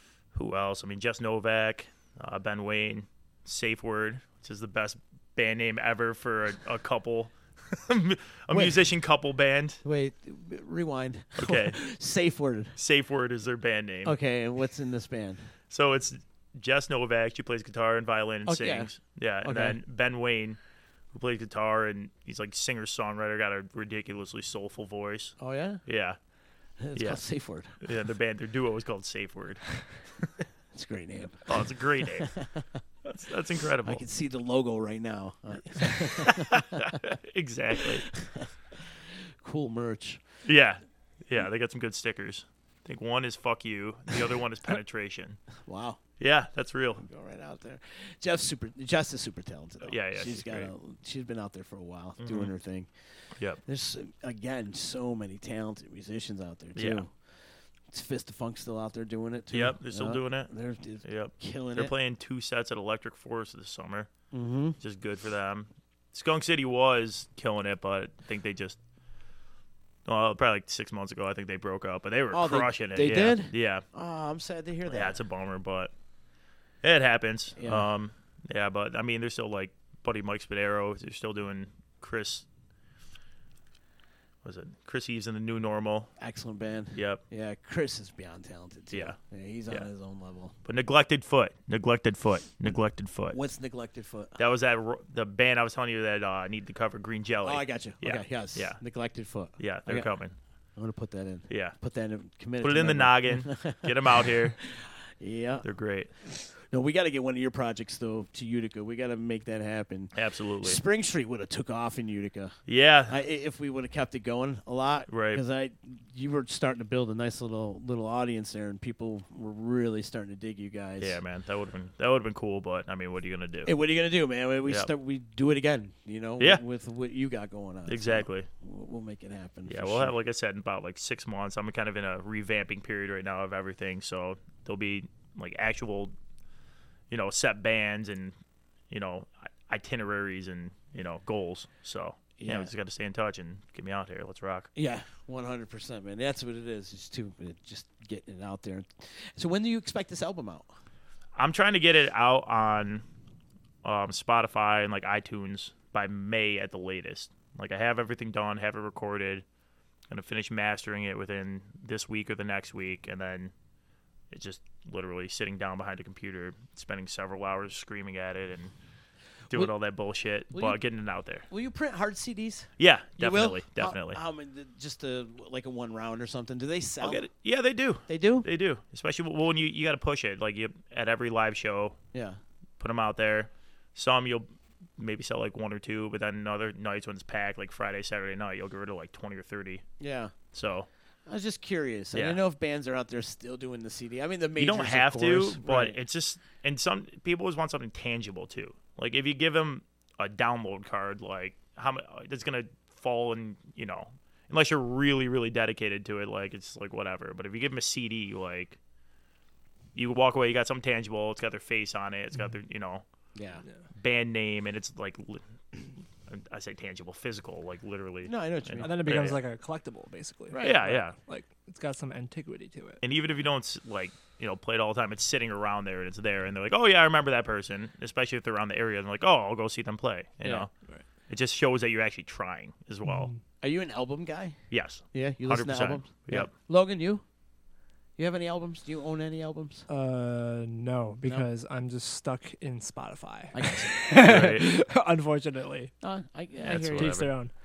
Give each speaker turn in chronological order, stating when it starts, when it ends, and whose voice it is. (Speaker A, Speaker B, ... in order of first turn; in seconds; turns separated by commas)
Speaker A: 0.3-9.8, Speaker B: 8.5-8.8, Speaker B: 9.8-12.7, Speaker A: 11.4-11.8, Speaker A: 12.8-14.2, Speaker B: 14.1-15.5, Speaker A: 15.7-20.6, Speaker B: 18.4-18.9, Speaker B: 19.4-19.8, Speaker A: 21.1-26.2, Speaker B: 25.4-25.8, Speaker B: 26.8-27.8, Speaker A: 26.9-27.2, Speaker A: 27.8-29.8, Speaker B: 30.7-32.8, Speaker A: 31.5-32.4, Speaker A: 33.0-34.0, Speaker B: 33.9-37.0, Speaker A: 36.2-38.1, Speaker B: 37.8-40.2, Speaker A: 40.4-45.4, Speaker B: 45.6-46.0, Speaker A: 46.2-47.0, Speaker B: 47.0-52.9, Speaker A: 49.8-50.7, Speaker A: 52.2-52.5, Speaker B: 53.6-61.9, Speaker A: 56.8-57.0, Speaker A: 59.5-60.5, Speaker A: 61.0-64.1, Speaker B: 64.3-64.8, Speaker A: 64.8-68.8, Speaker A: 70.1-73.8, Speaker B: 72.3-75.2, Speaker A: 74.9-75.9, Speaker A: 76.8-82.4, Speaker B: 77.6-77.9, Speaker A: 84.4-86.1, Speaker B: 86.2-90.5, Speaker A: 86.9-87.2, Speaker A: 90.6-93.4, Speaker B: 93.3-94.4, Speaker A: 94.4-98.8, Speaker B: 97.4-100.1, Speaker A: 99.6-100.3, Speaker B: 100.8-105.6, Speaker A: 101.5-101.8, Speaker A: 102.6-104.6, Speaker A: 105.6-106.1, Speaker B: 106.2-112.6, Speaker A: 110.1-110.8, Speaker A: 112.7-113.2, Speaker B: 113.1-121.2, Speaker A: 115.1-115.4, Speaker A: 121.0-123.7, Speaker B: 123.6-130.1, Speaker A: 124.6-124.9, Speaker A: 127.9-128.5, Speaker A: 129.7-136.1, Speaker A: 137.1-138.3, Speaker A: 138.9-144.7, Speaker B: 142.4-142.7, Speaker B: 144.8-150.7, Speaker A: 151.4-153.0, Speaker A: 153.8-159.4, Speaker A: 160.1-163.5, Speaker A: 164.3-168.7, Speaker A: 169.5-171.5, Speaker B: 170.5-170.8, Speaker B: 171.5-177.2, Speaker A: 172.8-174.2, Speaker A: 177.0-182.0, Speaker B: 178.1-178.5, Speaker B: 182.1-182.4, Speaker A: 182.8-184.5, Speaker A: 185.0-189.8, Speaker B: 190.0-190.3, Speaker A: 190.5-190.9, Speaker B: 191.3-196.0, Speaker A: 192.1-192.4, Speaker A: 194.6-208.8, Speaker A: 209.9-213.0, Speaker B: 213.3-213.6, Speaker A: 214.0-219.4, Speaker B: 218.2-219.0, Speaker C: 218.8-223.0, Speaker B: 220.5-221.0, Speaker A: 220.6-221.2, Speaker A: 223.0-230.7, Speaker B: 230.4-230.7, Speaker A: 231.3-233.3, Speaker C: 233.1-233.4, Speaker B: 233.6-234.6, Speaker A: 234.7-236.5, Speaker B: 235.1-237.2, Speaker B: 238.2-239.9, Speaker C: 239.9-245.9, Speaker B: 243.5-244.1, Speaker A: 244.2-244.7, Speaker B: 246.0-247.2, Speaker A: 246.6-247.5, Speaker C: 246.9-247.5